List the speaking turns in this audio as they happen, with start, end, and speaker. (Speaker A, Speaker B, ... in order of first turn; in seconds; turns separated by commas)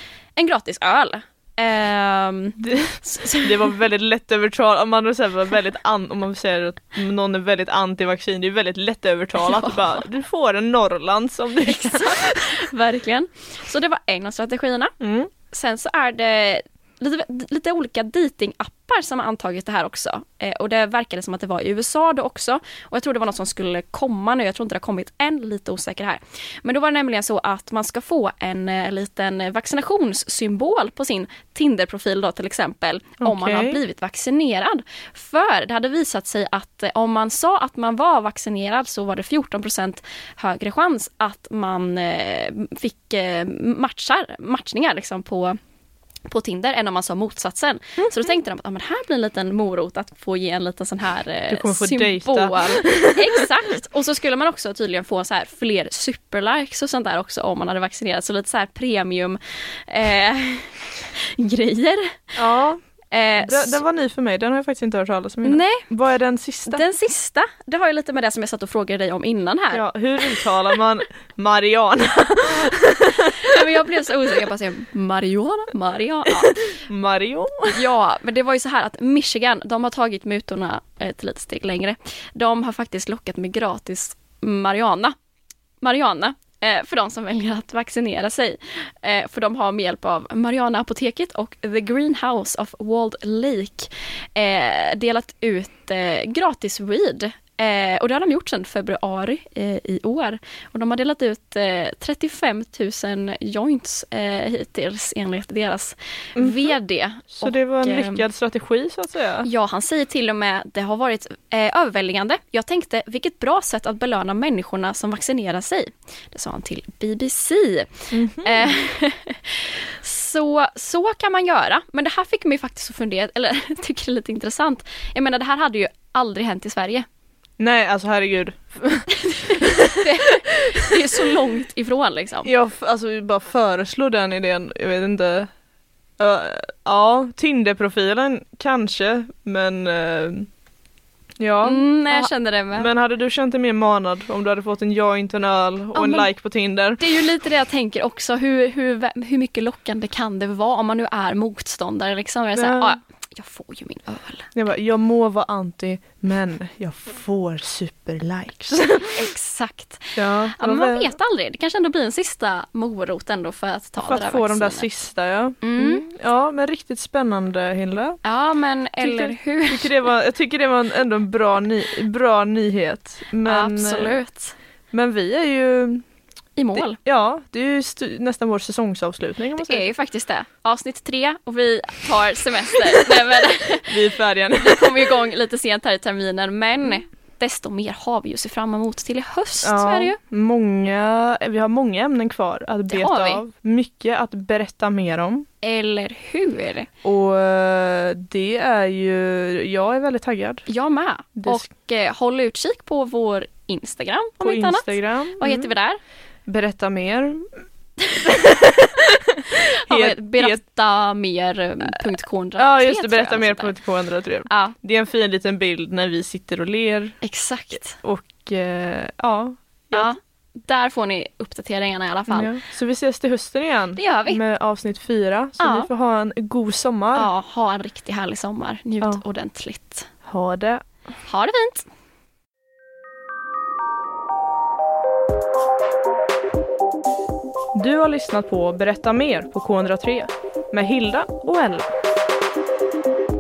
Speaker A: 0.4-3.6, Speaker B: 2.6-12.6, Speaker A: 9.4-10.1, Speaker A: 11.7-14.9, Speaker B: 15.0-15.3, Speaker A: 15.5-45.6, Speaker B: 33.2-33.8, Speaker A: 46.3-62.4, Speaker B: 51.5-53.5, Speaker B: 62.4-62.8, Speaker A: 63.1-63.8, Speaker B: 63.4-66.8, Speaker A: 65.4-65.9, Speaker A: 66.7-70.5, Speaker B: 69.7-73.7, Speaker A: 73.2-76.8, Speaker B: 76.8-77.8, Speaker A: 77.7-85.2, Speaker A: 85.8-108.2, Speaker B: 106.4-106.7, Speaker B: 107.4-109.5, Speaker A: 109.4-127.1, Speaker B: 118.1-118.8, Speaker B: 127.6-130.1, Speaker A: 129.1-132.5, Speaker B: 130.9-131.4, Speaker B: 132.4-135.5, Speaker B: 136.2-140.5, Speaker B: 141.4-147.0, Speaker A: 141.6-142.9, Speaker A: 145.9-146.3, Speaker A: 147.0-154.5, Speaker B: 152.6-153.0, Speaker B: 154.5-159.2, Speaker A: 159.0-164.9, Speaker B: 160.2-161.1, Speaker B: 164.0-168.2, Speaker A: 165.6-166.1, Speaker A: 168.2-170.0, Speaker B: 169.0-174.2, Speaker A: 173.5-174.6, Speaker B: 174.9-176.0, Speaker A: 176.6-177.0, Speaker B: 176.8-179.9, Speaker A: 179.6-184.0, Speaker B: 183.9-185.1, Speaker A: 184.6-190.2, Speaker B: 189.6-195.5, Speaker A: 192.9-193.4, Speaker A: 195.6-196.9, Speaker B: 197.0-200.7, Speaker A: 200.7-206.0, Speaker B: 201.4-201.7, Speaker B: 204.4-205.7, Speaker B: 206.5-207.5, Speaker B: 208.1-210.6, Speaker A: 209.5-213.8, Speaker B: 212.6-217.2, Speaker A: 214.5-214.8, Speaker A: 217.2-218.0, Speaker B: 218.0-220.1, Speaker A: 219.9-222.5, Speaker B: 222.3-227.3, Speaker A: 224.0-224.4, Speaker A: 225.6-225.9, Speaker A: 227.2-230.1, Speaker B: 230.2-230.8, Speaker A: 231.3-231.9, Speaker B: 237.7-241.9